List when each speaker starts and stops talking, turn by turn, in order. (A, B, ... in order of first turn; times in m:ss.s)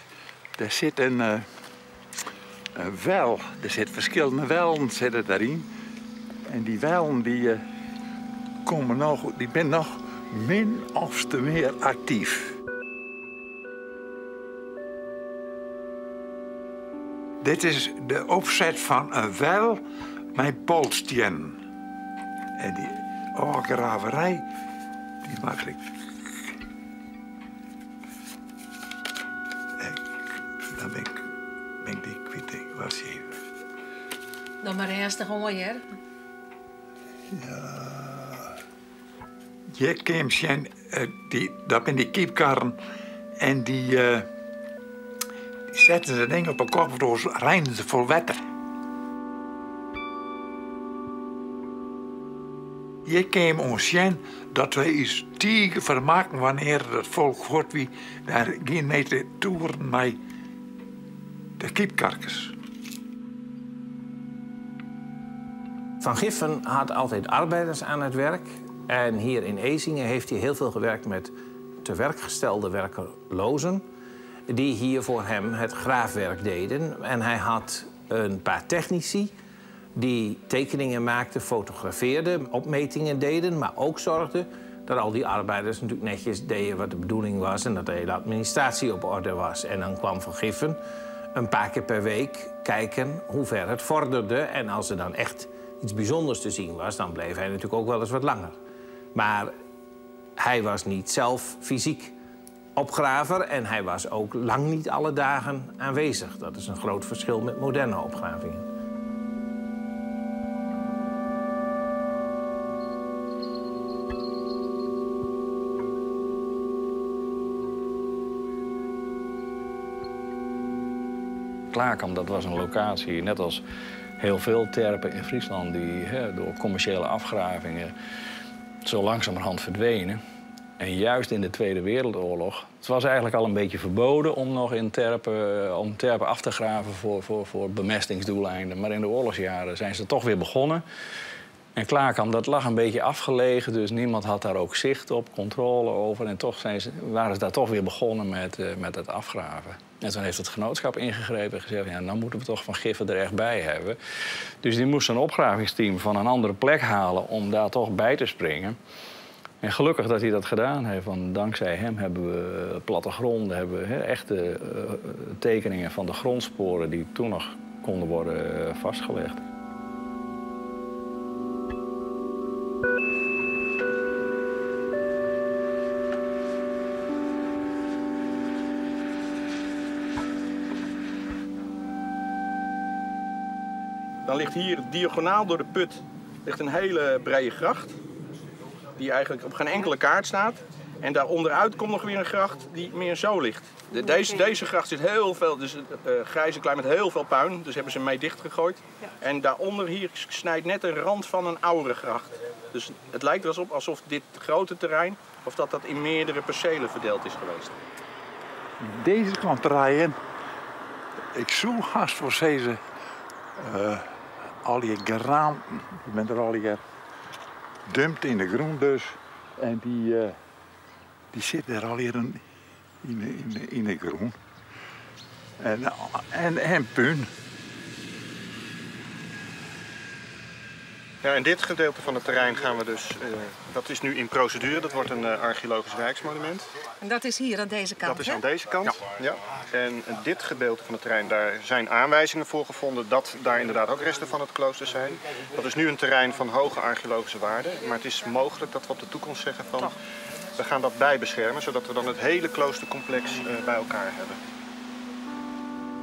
0:00.6-0:01.4 A
0:02.7-0:05.6 A
0:06.5-0:07.6 A
0:08.6-0:12.6 A
0:17.4-0:19.8 A
0:20.3-0:21.6 A
0:22.6-0:24.4 A
0:25.2-0:25.8 A
0:30.6-0:31.3 A
0:31.8-0:33.4 A
0:34.6-0:35.8 B
0:37.3-0:38.5 A
0:39.7-0:42.8 A
0:43.4-0:44.3 A
0:45.7-0:48.4 A
0:53.0-1:00.2 A
1:01.6-1:02.5 A
1:06.0-1:13.8 C
1:14.5-1:19.3 C
1:20.0-1:30.8 C
1:31.3-1:38.6 C
1:39.1-1:39.5 C
1:40.4-1:42.2 C
1:42.8-1:48.6 C
2:01.7-2:03.6 D
2:04.2-2:07.9 D
2:08.8-2:10.2 D
2:10.8-2:20.8 D
2:21.8-2:34.0 D
2:34.6-2:38.8 D
2:39.6-2:49.4 D
3:04.2-3:08.0 E
3:09.0-3:27.8 E
3:14.0-3:14.4 B
3:28.8-3:30.2 A
3:31.3-3:32.8 A
3:33.6-3:34.1 A
3:34.6-3:36.8 A
3:37.9-3:40.4 A
3:41.3-3:42.4 A
3:43.0-3:44.4 A
3:45.6-3:47.3 A
3:51.2-3:56.7 F
3:57.0-3:58.4 B
3:58.0-4:10.0 F
4:10.5-4:14.4 F